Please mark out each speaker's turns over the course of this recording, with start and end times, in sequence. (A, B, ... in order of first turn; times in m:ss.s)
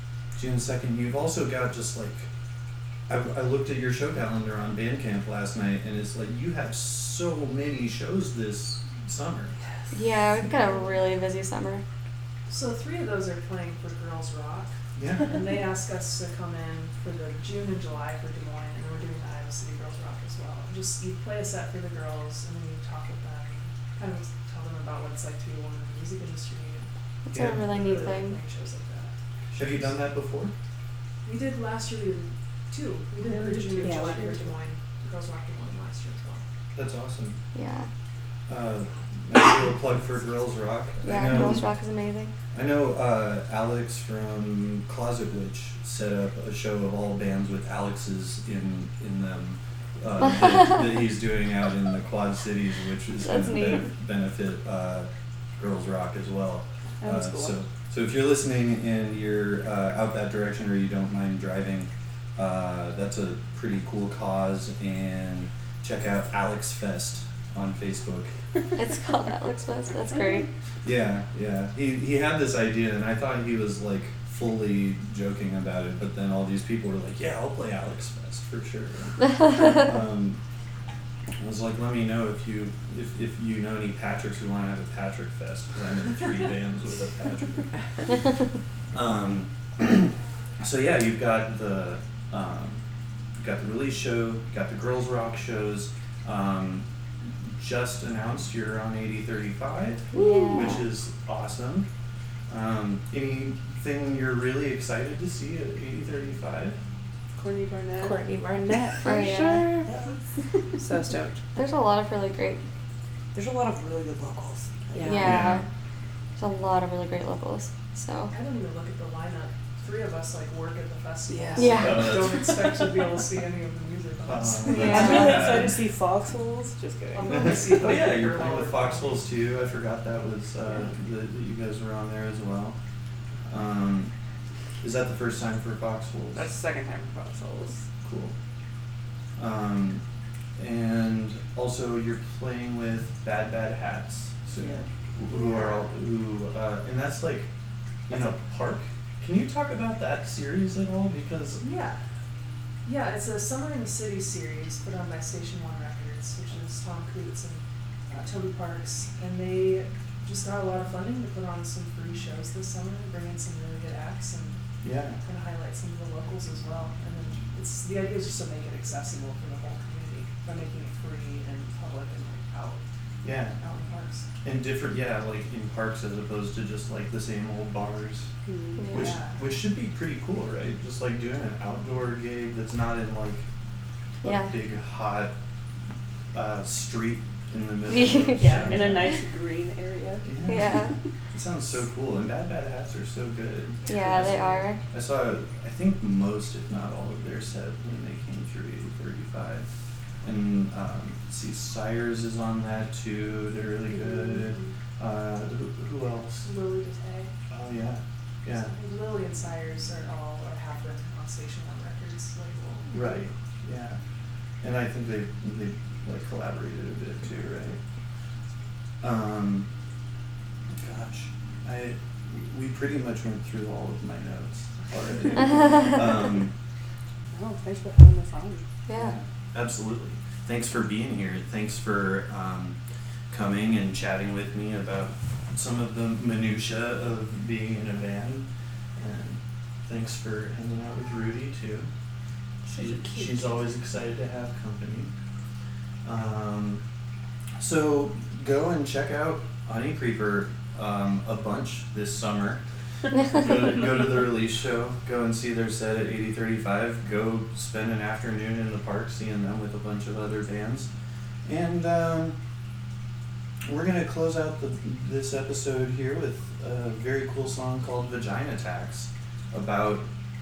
0:00.3-0:02.3 A
0:03.1-0:09.5 A
0:09.6-0:10.9 B
0:09.9-0:11.8 C
0:12.5-0:26.9 B
0:15.0-0:15.4 A
0:27.2-0:28.4 C
0:27.3-0:27.6 A
0:27.5-0:29.1 B
0:29.5-0:30.5 A
0:31.2-0:36.4 B
0:33.2-0:34.5 D
0:33.8-0:34.2 E
0:36.7-0:37.4 A
0:37.5-0:37.9 C
0:38.5-0:41.7 A
0:41.0-0:42.3 C
0:41.2-0:41.6 E
0:42.5-1:08.3 A
0:53.2-0:53.9 C
0:57.0-0:57.6 D
1:08.8-1:10.5 C
1:10.8-1:20.4 A
1:19.2-1:19.8 C
1:21.4-1:27.7 A
1:28.9-1:32.8 A
1:33.4-1:41.9 A
1:40.1-1:40.8 E
1:40.1-1:40.8 C
1:42.5-1:46.8 A
1:47.3-1:48.2 D
1:48.0-1:49.9 E
1:49.0-1:49.7 C
1:49.8-1:50.2 D
1:50.8-1:51.4 E
1:51.5-1:52.6 C
1:53.3-1:55.2 D
1:54.9-1:55.4 E
1:55.0-1:55.6 C
1:55.2-1:55.6 A
1:56.4-1:58.3 C
1:58.3-2:05.7 B
2:01.3-2:02.0 D
2:01.6-2:02.2 C
2:01.8-2:02.8 A
2:04.2-2:05.8 A
2:04.7-2:05.4 C
2:04.7-2:07.6 D
2:07.1-2:09.2 B
2:07.3-2:12.8 A
2:10.7-2:10.9 D
2:13.5-2:14.1 A
2:14.8-2:16.5 A
2:16.3-2:17.8 D
2:18.0-2:18.3 A
2:19.4-2:20.0 A
2:20.6-2:27.5 A
2:24.6-2:24.8 D
2:25.2-2:25.8 B
2:28.1-2:28.3 D
2:28.1-2:31.6 A
2:31.6-2:32.0 B
2:32.8-2:44.6 B
2:44.8-2:45.2 A
2:45.2-2:52.8 B
2:53.2-2:53.6 A
2:53.6-2:54.3 B
2:54.4-2:58.3 A
2:58.4-2:58.9 D
2:58.8-2:59.1 C
2:58.9-2:59.4 B
2:58.9-3:03.5 A
3:04.2-3:04.5 C
3:04.2-3:05.4 A
3:06.3-3:09.2 A
3:07.9-3:08.7 C
3:08.4-3:10.3 D
3:10.2-3:19.7 A
3:10.4-3:10.9 C
3:13.9-3:14.8 C
3:20.2-3:26.5 A
3:26.4-3:27.3 B
3:27.5-3:28.8 A
3:28.5-3:33.2 B
3:32.9-3:34.0 A
3:34.6-3:37.8 A
3:39.0-3:39.7 A
3:40.7-3:46.5 A
3:47.3-3:48.6 D
3:48.9-3:49.2 C
3:48.9-3:52.8 A
3:53.3-4:01.9 A
4:02.6-4:03.6 D
4:02.7-4:05.1 A
4:06.0-4:06.8 A
4:07.6-4:12.6 A
4:13.1-4:20.9 A
4:21.4-4:22.4 A
4:23.6-4:30.1 A